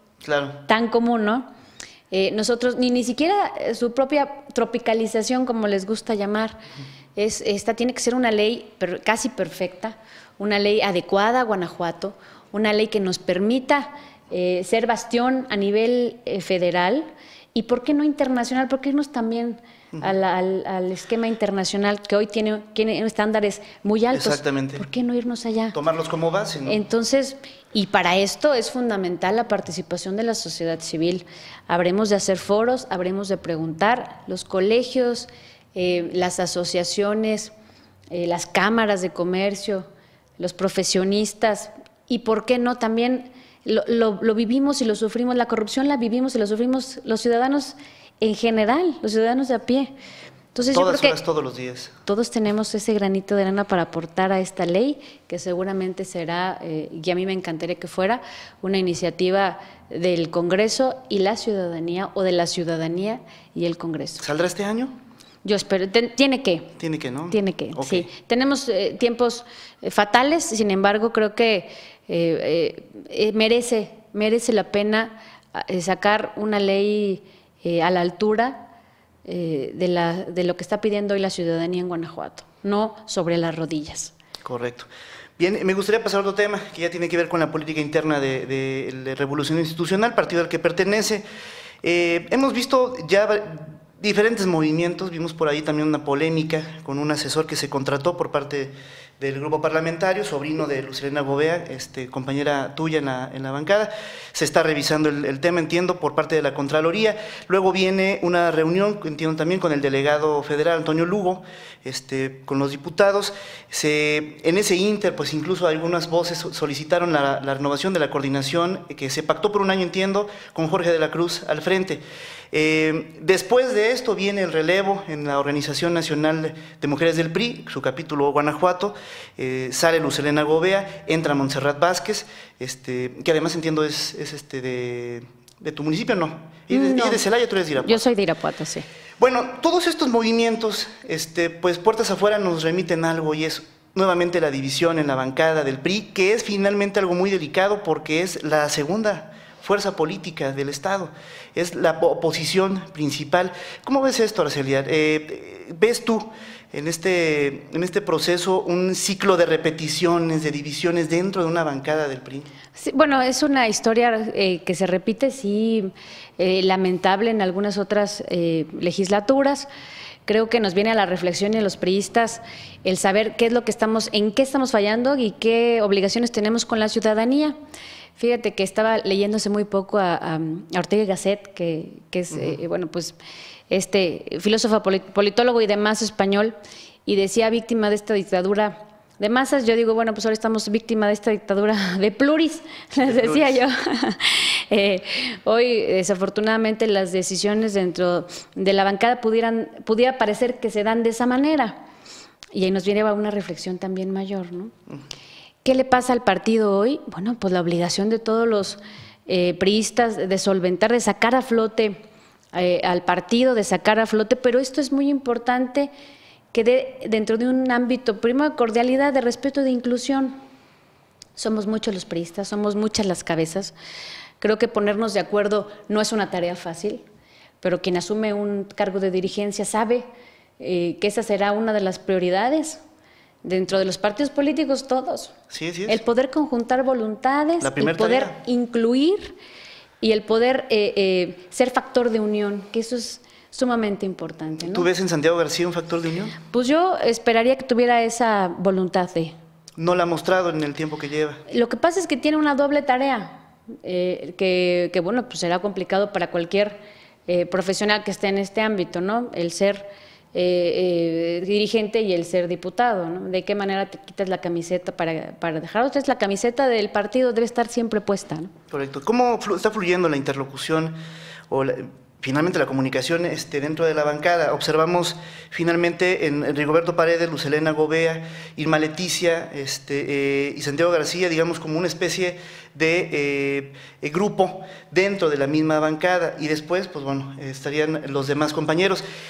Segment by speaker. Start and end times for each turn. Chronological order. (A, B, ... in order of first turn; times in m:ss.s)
0:00.2-0:00.6 A
0:00.7-0:01.5 B
0:02.1-0:06.6 B
0:07.2-0:25.8 B
0:24.1-0:24.8 A
0:25.7-0:26.8 A
0:26.6-0:37.5 B
0:38.1-0:39.9 B
0:40.4-0:49.9 B
0:50.5-0:51.2 B
0:50.7-0:51.9 A
0:52.0-1:04.2 B
1:04.2-1:05.0 A
1:05.4-1:06.7 B
1:06.8-1:08.1 A
1:07.3-1:18.7 B
1:19.2-1:24.1 B
1:24.4-1:24.9 A
1:25.4-1:31.2 A
1:31.8-2:18.0 A
2:16.7-2:17.3 B
2:17.8-2:18.8 B
2:19.2-2:42.5 A
2:42.8-2:49.7 B
2:50.3-2:57.6 B
2:58.2-3:03.2 B
3:03.7-3:21.8 B
3:13.0-3:13.6 A
3:22.5-3:24.7 B
3:25.6-3:32.0 B
3:32.5-3:35.9 B
3:36.5-3:40.4 B
3:41.4-3:43.7 B
3:44.4-3:47.0 B
3:47.6-3:50.0 B
3:50.6-3:52.8 B
3:53.4-3:55.3 B
3:55.5-3:56.0 A
3:55.9-3:59.4 B
3:57.6-3:58.4 A
4:00.0-4:04.9 B
4:04.6-4:06.4 A
4:06.5-4:09.3 B
4:09.8-4:11.4 A
4:11.5-4:28.5 B
4:28.7-4:31.0 A
4:31.5-4:49.0 A